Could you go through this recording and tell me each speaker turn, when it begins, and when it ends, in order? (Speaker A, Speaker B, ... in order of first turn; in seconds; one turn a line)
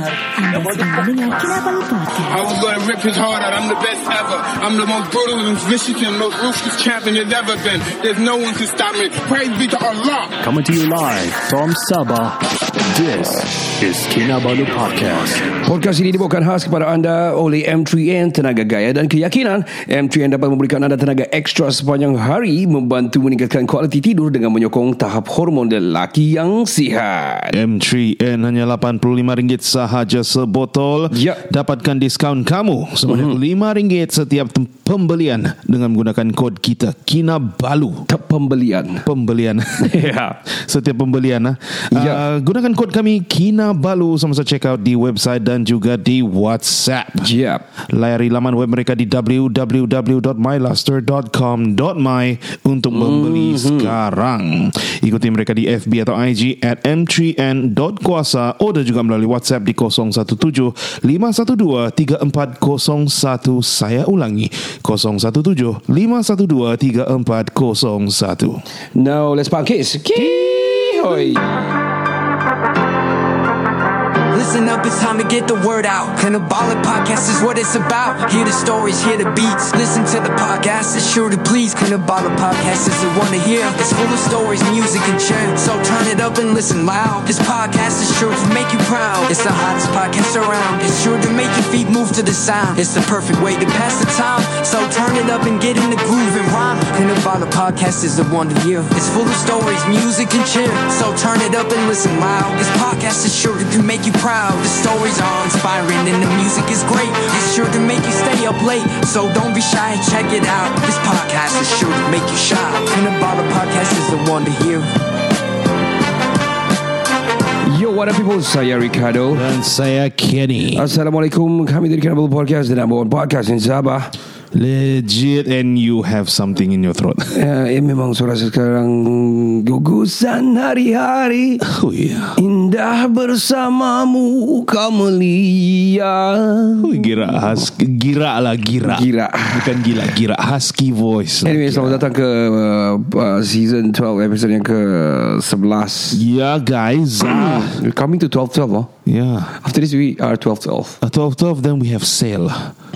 Speaker A: 0.2-2.5
Speaker B: 2.3-10.4
Speaker C: 10.4-15.5
Speaker D: 15.6-27.6
Speaker E: 27.5-38.0
Speaker D: 31.1-31.4
Speaker D: 33.1-33.4
Speaker D: 38.1-39.0
Speaker E: 39.0-47.3
Speaker D: 39.8-40.4
Speaker D: 41.9-42.3
Speaker D: 47.2-47.6
Speaker E: 47.9-68.6
Speaker D: 52.9-54.0
Speaker D: 68.9-71.5
Speaker F: 74.3-114.9
Speaker D: 117.6-119.4
Speaker E: 119.3-120.9
Speaker D: 120.7-124.1
Speaker E: 124.5-127.4
Speaker D: 127.3-131.7
Speaker E: 131.6-132.4
Speaker D: 132.4-137.7
Speaker E: 136.8-142.1
Speaker D: 138.8-139.9
Speaker D: 141.4-146.2
Speaker E: 146.1-147.8
Speaker D: 147.2-148.9
Speaker E: 149.1-149.6
Speaker D: 149.6-151.0
Speaker E: 151.0-152.7